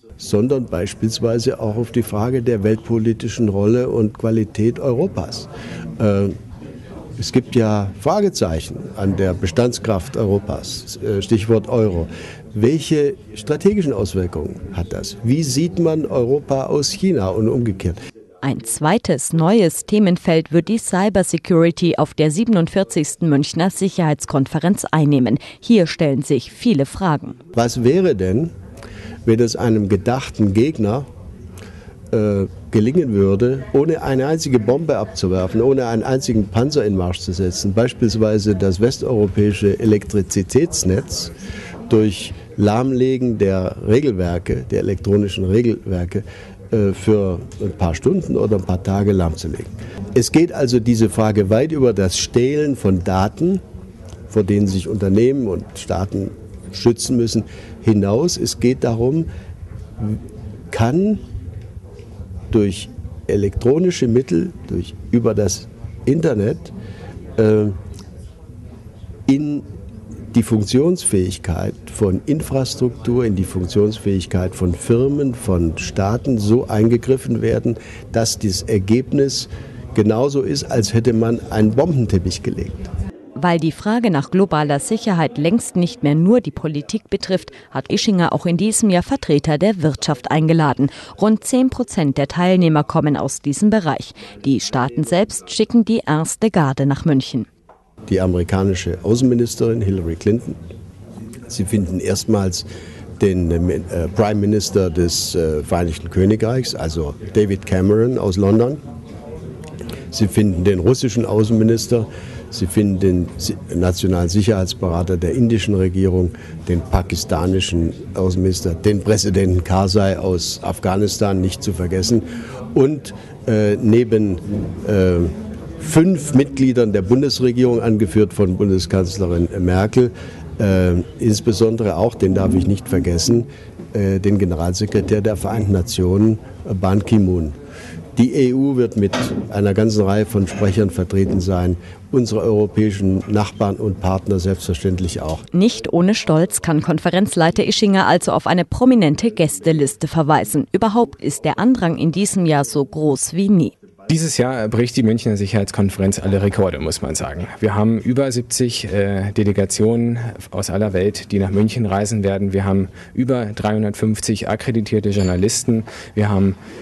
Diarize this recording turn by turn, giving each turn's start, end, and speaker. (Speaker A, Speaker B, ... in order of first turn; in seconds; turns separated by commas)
Speaker A: 0.2-5.5, Speaker A: 6.0-6.4, Speaker A: 7.2-18.0, Speaker B: 18.4-27.4, Speaker A: 27.5-28.5, Speaker A: 29.2-31.1, Speaker A: 32.1-41.3, Speaker A: 41.9-53.6, Speaker A: 54.3-59.3, Speaker A: 60.7-61.2, Speaker A: 62.5-66.7, Speaker A: 67.4-67.8, Speaker A: 69.3-69.7, Speaker A: 70.3-82.9, Speaker B: 83.4-97.5, Speaker A: 98.1-100.6, Speaker A: 101.5-102.7, Speaker A: 103.2-108.8, Speaker A: 110.1-137.6, Speaker A: 138.2-145.4, Speaker B: 145.5-153.7, Speaker C: 154.1-166.6